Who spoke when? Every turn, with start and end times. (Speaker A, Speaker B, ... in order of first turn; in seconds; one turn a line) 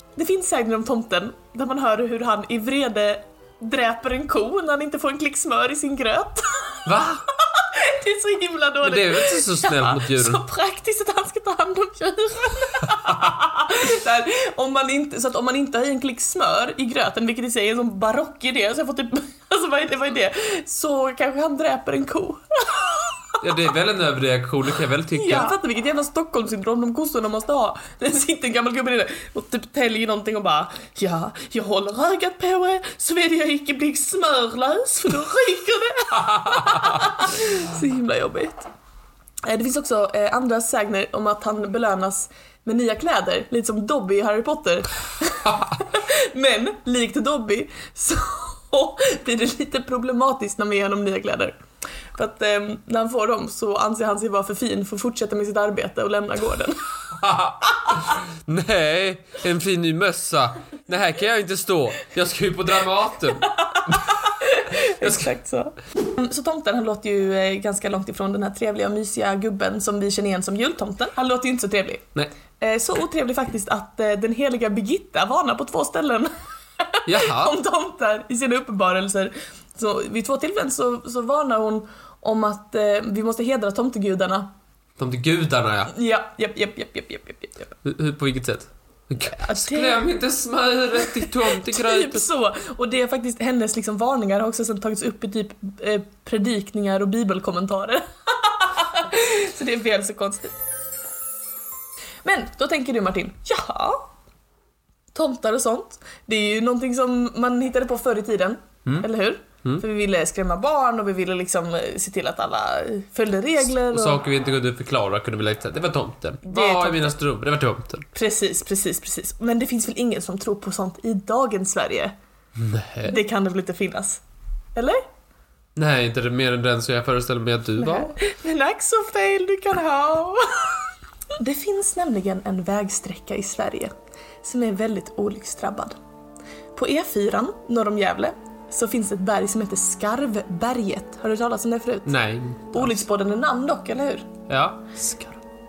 Speaker A: 0.2-6.9
Speaker B: 6.8-7.2
Speaker A: 7.4-23.1
Speaker B: 8.8-10.4
Speaker B: 23.4-25.5
Speaker A: 25.1-38.7
Speaker A: 39.5-51.6
Speaker A: 52.1-56.9
Speaker B: 57.1-64.1
Speaker A: 63.4-72.1
Speaker B: 65.0-65.3
Speaker A: 72.6-84.5
Speaker B: 77.1-77.6
Speaker B: 85.0-85.9
Speaker A: 85.9-87.7
Speaker B: 87.8-92.3
Speaker A: 89.2-90.0
Speaker A: 91.0-100.5
Speaker A: 102.2-104.0
Speaker A: 105.1-114.2
Speaker B: 113.9-118.1
Speaker A: 116.5-117.2
Speaker A: 118.1-122.1
Speaker B: 122.6-123.2
Speaker A: 123.0-124.2
Speaker A: 124.8-125.0
Speaker B: 125.8-128.1
Speaker A: 127.8-130.8
Speaker A: 131.4-133.9
Speaker A: 134.4-135.9
Speaker A: 136.8-142.2
Speaker B: 142.1-143.1
Speaker A: 142.7-144.3
Speaker B: 144.5-145.4